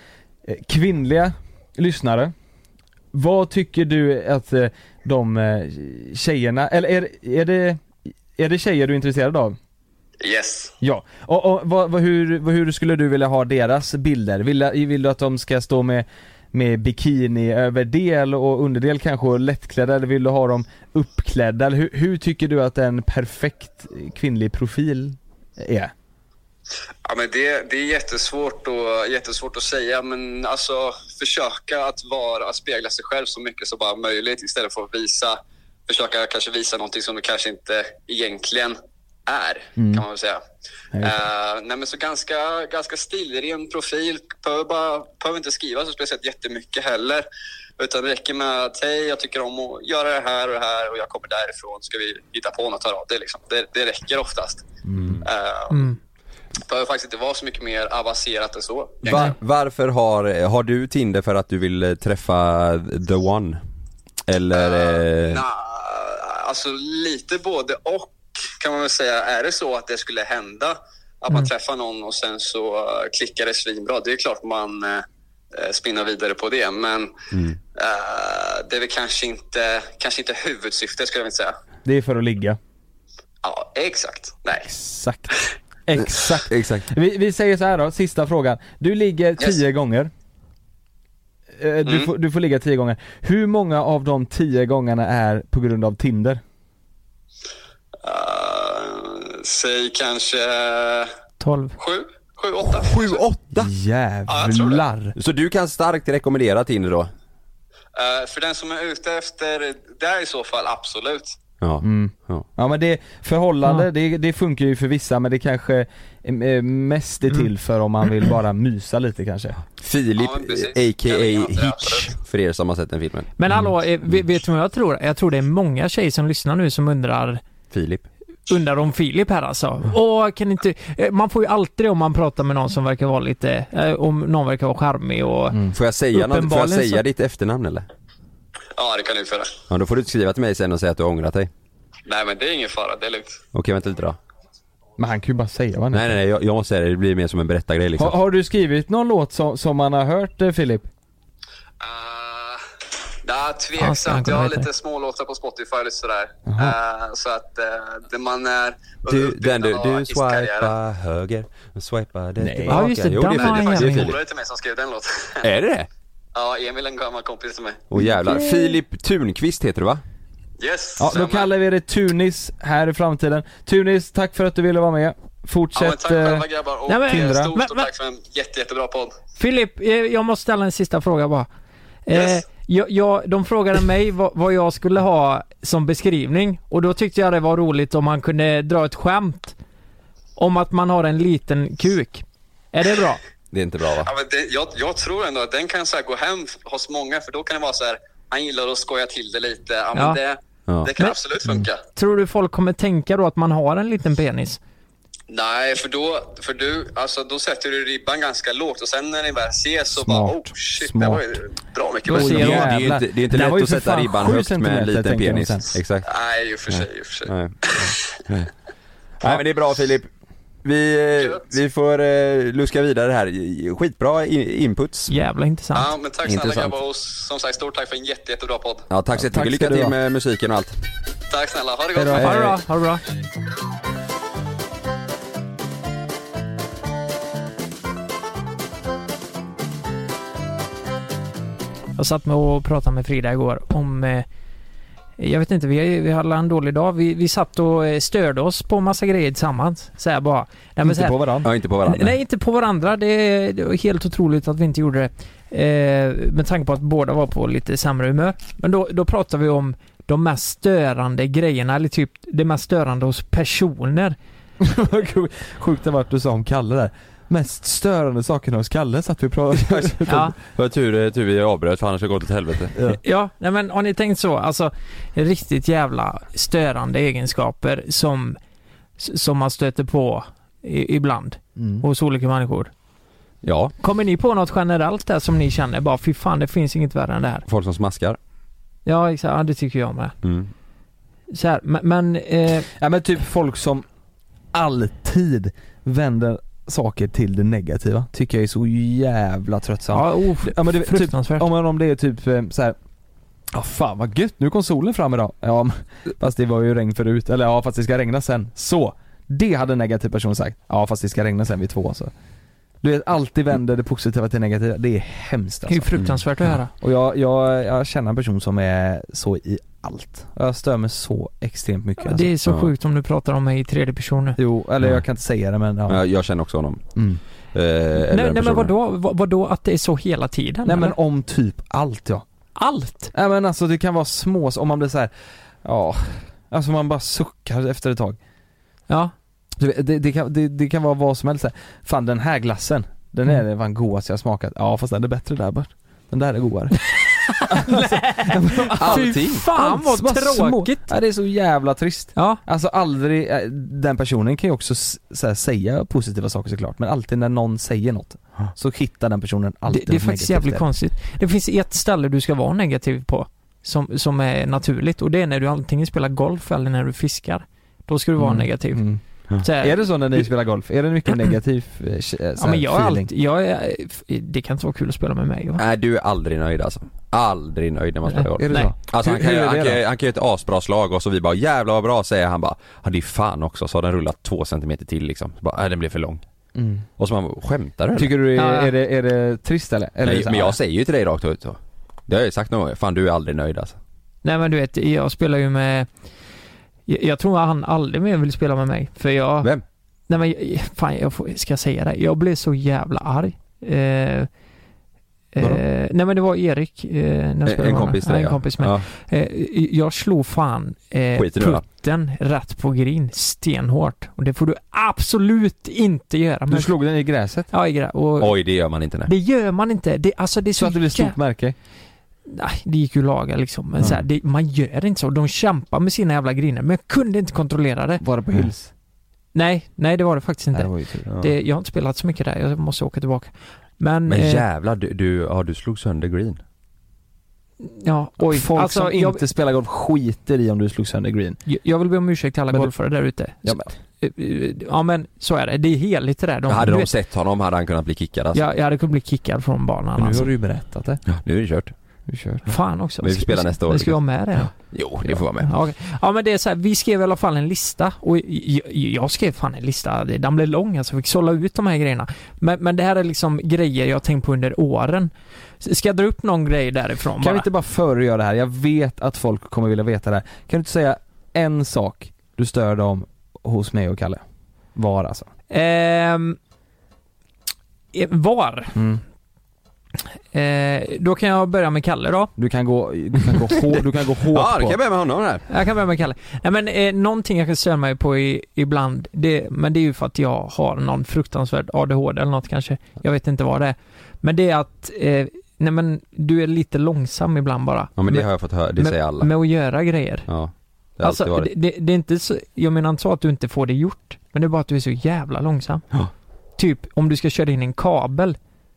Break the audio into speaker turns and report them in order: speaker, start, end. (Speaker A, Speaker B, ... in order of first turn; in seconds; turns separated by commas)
Speaker A: 0.5-2.3, Speaker A: 3.1-7.8, Speaker A: 8.3-9.6, Speaker B: 10.2-10.7, Speaker A: 10.8-25.9, Speaker B: 27.0-40.4, Speaker A: 39.8-40.0, Speaker A: 40.9-41.2, Speaker B: 41.0-47.2, Speaker B: 47.8-54.7, Speaker A: 54.8-55.2, Speaker C: 55.0-55.2, Speaker B: 55.2-55.9, Speaker D: 55.7-56.0, Speaker B: 56.7-59.2, Speaker C: 59.0-63.6, Speaker C: 64.3-65.4, Speaker B: 64.5-77.1, Speaker C: 77.3-77.6, Speaker B: 77.7-81.5, Speaker A: 81.8-82.6, Speaker B: 83.4-84.7, Speaker A: 84.6-85.3, Speaker A: 85.9-90.1, Speaker C: 86.5-86.9, Speaker A: 91.6-96.4, Speaker B: 91.8-92.1, Speaker B: 98.0-101.1, Speaker D: 101.4-101.8, Speaker B: 101.8-103.2, Speaker C: 102.7-103.7, Speaker A: 103.5-105.1, Speaker B: 104.3-104.8, Speaker C: 105.2-107.1, Speaker B: 107.9-111.4, Speaker C: 111.6-112.5, Speaker A: 111.8-119.6, Speaker C: 119.8-123.3, Speaker B: 120.2-122.1, Speaker D: 123.4-127.4, Speaker C: 127.7-128.1, Speaker D: 128.5-135.6, Speaker C: 135.7-137.8, Speaker D: 136.1-137.0, Speaker B: 138.7-139.6, Speaker C: 139.7-141.5, Speaker B: 142.1-143.4, Speaker C: 143.5-144.2, Speaker A: 145.0-146.2, Speaker C: 145.9-148.2, Speaker A: 148.0-150.9, Speaker B: 151.8-152.6, Speaker B: 153.2-160.7, Speaker D: 153.8-154.7, Speaker A: 156.4-156.8, Speaker C: 159.1-164.2, Speaker A: 162.4-162.8, Speaker D: 162.7-164.1, Speaker B: 163.4-165.4, Speaker C: 165.4-165.9, Speaker B: 166.3-167.8, Speaker C: 167.9-170.0, Speaker B: 170.6-171.5, Speaker A: 171.0-176.4, Speaker B: 175.7-179.2, Speaker D: 176.9-177.9, Speaker A: 177.1-177.5, Speaker D: 179.3-181.5, Speaker D: 182.1-189.6, Speaker B: 182.1-182.4, Speaker D: 190.4-193.2, Speaker C: 193.5-194.1, Speaker B: 194.0-201.8, Speaker D: 199.9-200.2, Speaker D: 201.9-204.6, Speaker B: 205.3-212.5, Speaker A: 209.9-211.4, Speaker D: 212.1-212.8, Speaker A: 212.1-215.8, Speaker C: 212.2-216.0, Speaker B: 216.1-217.9, Speaker C: 216.7-218.5, Speaker C: 219.2-220.1, Speaker C: 220.6-225.1, Speaker B: 221.2-221.4, Speaker D: 225.1-225.9, Speaker B: 225.7-228.8, Speaker C: 226.2-226.7, Speaker C: 228.9-230.7, Speaker A: 229.1-229.9, Speaker B: 231.3-232.3, Speaker A: 231.9-232.6, Speaker D: 232.1-233.0, Speaker D: 241.9-244.2, Speaker D: 245.2-251.2, Speaker A: 250.8-251.5, Speaker C: 251.4-252.2, Speaker D: 251.8-264.1, Speaker A: 264.6-270.3, Speaker D: 270.1-270.3, Speaker C: 270.5-272.7, Speaker D: 273.0-278.4, Speaker D: 279.0-282.7, Speaker A: 281.6-281.8, Speaker C: 283.4-283.7, Speaker D: 283.8-287.4, Speaker C: 287.5-288.2, Speaker D: 288.9-290.1, Speaker C: 290.2-290.5, Speaker D: 291.3-292.7, Speaker A: 292.8-293.8, Speaker A: 294.5-302.8, Speaker D: 299.9-301.5, Speaker A: 303.5-312.1, Speaker A: 312.8-315.9, Speaker D: 315.7-316.7, Speaker A: 316.8-322.3, Speaker D: 322.0-324.4, Speaker C: 322.4-322.7, Speaker A: 324.4-326.0, Speaker C: 325.9-326.8, Speaker C: 327.5-328.7, Speaker D: 328.1-330.9, Speaker A: 330.6-332.2, Speaker D: 332.6-333.1, Speaker A: 333.1-335.1, Speaker A: 335.6-338.2, Speaker A: 339.6-346.8, Speaker D: 347.0-350.9, Speaker A: 347.4-360.6, Speaker C: 348.8-349.4, Speaker D: 352.1-352.4, Speaker D: 359.7-368.9, Speaker A: 368.2-373.1, Speaker D: 369.4-370.2, Speaker D: 372.4-375.6, Speaker C: 375.6-386.2, Speaker D: 378.1-378.7, Speaker A: 378.4-379.8, Speaker A: 386.5-386.8, Speaker C: 387.0-388.1, Speaker A: 387.9-390.6, Speaker D: 388.4-388.7, Speaker C: 390.0-393.8, Speaker D: 394.2-395.9, Speaker D: 396.9-399.5, Speaker D: 400.1-404.3, Speaker D: 405.3-416.7, Speaker C: 407.4-408.9, Speaker C: 411.2-411.6, Speaker A: 416.5-417.5, Speaker D: 417.5-418.3, Speaker C: 418.2-419.1, Speaker D: 419.1-421.1, Speaker A: 420.6-421.5, Speaker D: 422.3-428.0, Speaker A: 428.0-428.7, Speaker D: 429.3-434.4, Speaker A: 430.5-431.1, Speaker C: 431.1-431.3, Speaker C: 434.1-436.4, Speaker D: 437.6-439.2, Speaker A: 438.2-441.4, Speaker D: 441.4-446.9, Speaker A: 443.4-443.7, Speaker C: 446.5-448.4, Speaker D: 448.3-450.3, Speaker A: 449.9-451.0, Speaker C: 451.1-451.7, Speaker A: 452.1-452.5, Speaker D: 452.5-454.5, Speaker C: 453.0-454.0, Speaker C: 454.5-455.5, Speaker D: 455.4-467.5, Speaker A: 467.2-474.2, Speaker A: 474.7-475.3, Speaker D: 475.5-476.4, Speaker D: 477.9-478.8, Speaker A: 478.7-479.0, Speaker D: 480.3-482.3, Speaker A: 482.4-484.8, Speaker C: 484.3-485.4, Speaker D: 485.5-500.2, Speaker C: 498.0-499.3, Speaker C: 500.3-501.5, Speaker D: 501.0-505.8, Speaker D: 506.6-508.4